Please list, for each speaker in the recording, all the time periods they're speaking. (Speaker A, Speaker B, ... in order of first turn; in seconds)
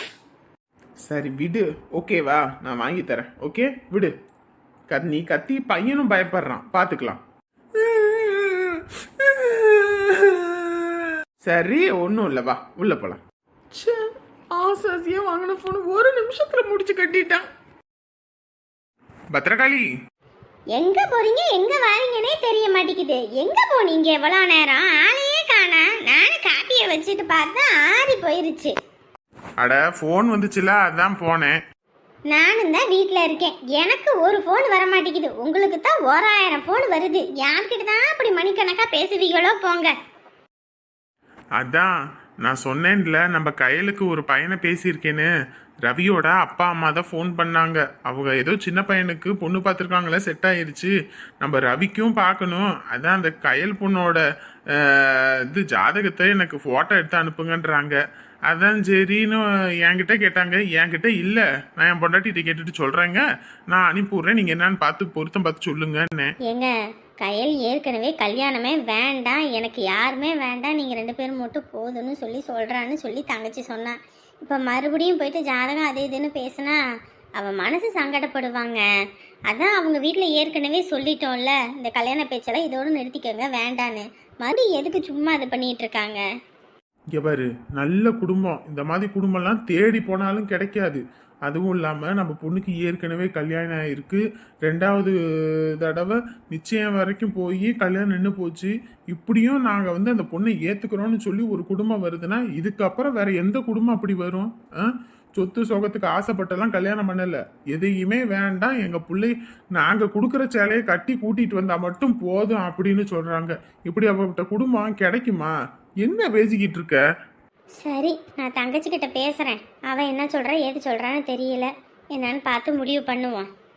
Speaker A: 1.1-4.1, 4.9-7.2, 8.0-8.6, 9.5-10.4, 11.4-13.2, 19.3-19.9, 29.6-31.6, 41.6-41.9, 42.4-45.3, 45.9-54.2, 55.0-58.0, 58.5-66.3, 87.1-95.1, 95.8-115.5, 116.0-117.0
Speaker B: 14.6-17.5
Speaker C: 20.7-28.7, 32.3-39.9, 67.2-76.8, 77.4-78.8, 79.5-86.2, 117.8-123.5